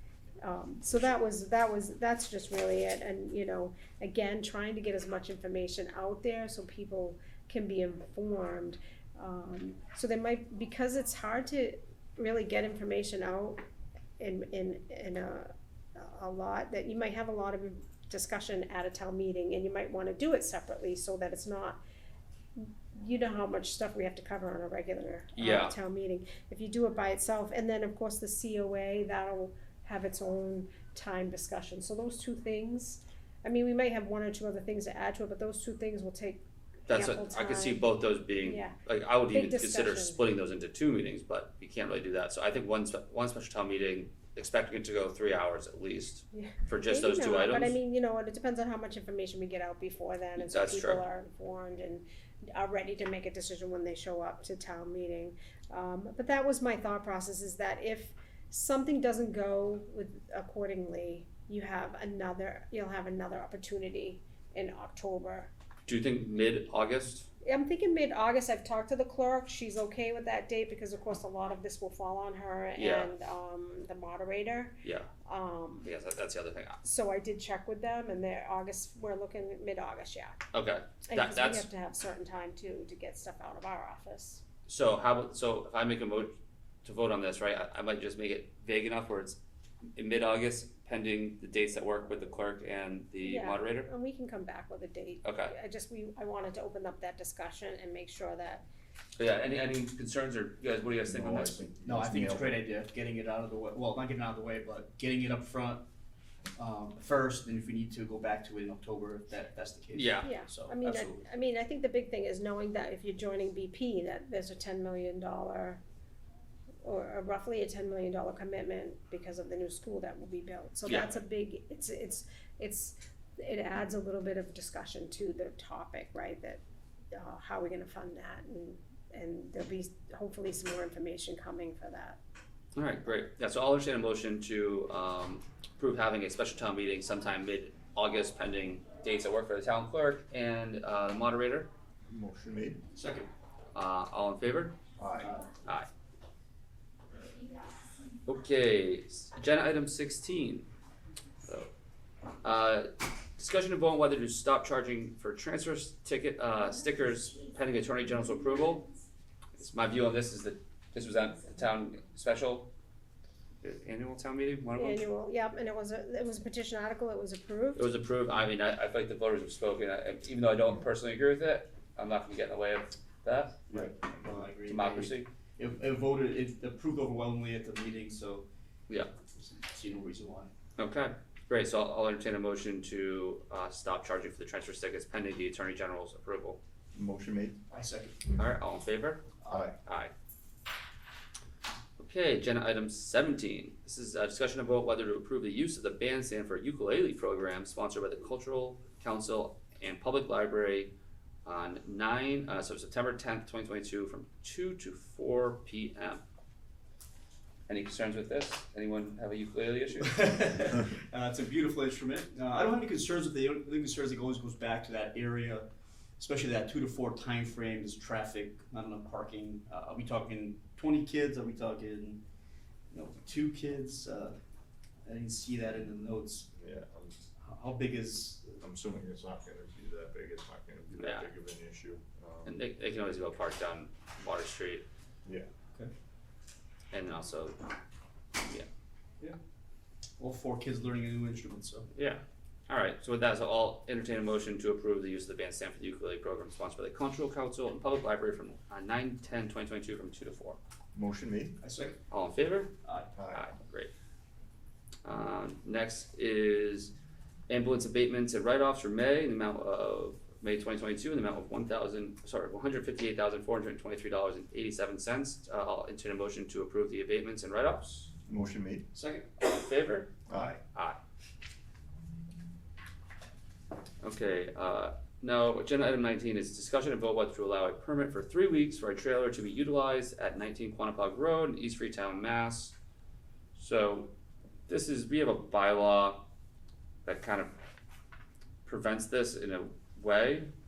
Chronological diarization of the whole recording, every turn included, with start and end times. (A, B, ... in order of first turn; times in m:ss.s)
0:00.4-0:13.6 A
0:14.2-0:21.8 A
0:22.6-0:37.8 A
0:25.4-0:25.8 B
0:36.9-0:47.8 B
0:38.4-0:38.8 A
0:39.3-0:40.2 A
0:46.3-1:05.5 A
0:50.4-0:51.0 B
1:05.9-1:07.3 B
1:07.4-1:15.9 A
1:12.8-1:13.1 B
1:14.8-1:15.1 B
1:15.8-1:16.8 B
1:16.8-1:20.5 A
1:20.5-1:21.7 B
1:21.1-1:24.4 A
1:24.7-1:29.4 B
1:30.0-1:33.9 B
1:33.2-1:38.6 A
1:35.2-1:35.5 B
1:39.2-1:41.7 B
1:41.1-1:42.5 C
1:41.8-1:45.8 D
1:46.6-1:51.2 D
1:49.9-1:50.3 B
1:50.2-1:55.8 A
1:56.8-2:06.6 A
2:00.9-2:01.2 B
2:07.1-2:12.2 A
2:12.8-2:21.7 B
2:22.1-2:22.8 C
2:23.0-2:23.3 D
2:23.7-2:24.8 B
2:25.0-2:25.3 C
2:25.2-2:25.5 D
2:28.2-2:30.7 B
2:31.4-2:31.7 B
2:32.4-2:38.9 B
2:39.6-2:42.7 B
2:43.6-2:45.0 B
2:44.8-2:47.8 A
2:47.8-2:53.6 B
2:53.7-2:54.4 C
2:53.7-2:58.5 D
2:54.7-2:55.3 B
2:59.3-3:00.5 D
3:00.8-3:06.6 B
3:06.9-3:07.6 C
3:07.7-3:08.4 D
3:08.4-3:09.2 B
3:09.4-3:09.7 D
3:09.5-3:09.8 C
3:09.8-3:10.1 B
3:12.0-3:20.9 B
3:21.4-3:26.2 B
3:27.7-3:30.2 B
3:30.1-3:35.7 D
3:36.2-3:42.2 D
3:42.9-3:44.4 D
3:45.0-3:46.5 D
3:46.5-3:47.2 C
3:47.4-3:48.6 D
3:48.6-3:52.6 C
3:51.0-3:51.3 B
3:52.4-3:54.9 B
3:56.9-3:57.6 B
3:58.4-3:58.7 B
4:00.2-4:01.9 D
4:02.0-4:10.6 B
4:10.9-4:11.6 C
4:11.6-4:12.0 D
4:12.1-4:12.8 B
4:12.8-4:13.1 D
4:13.2-4:13.4 C
4:13.3-4:13.9 B
4:15.0-4:16.9 B
4:17.5-4:28.1 B
4:28.3-4:28.9 C
4:28.9-4:29.3 D
4:29.4-4:30.1 B
4:30.3-4:30.6 C
4:30.7-4:31.0 B
4:34.0-4:42.8 B
4:43.6-4:44.1 B
4:44.7-4:46.2 B
4:47.1-4:47.5 B
4:48.6-4:50.5 B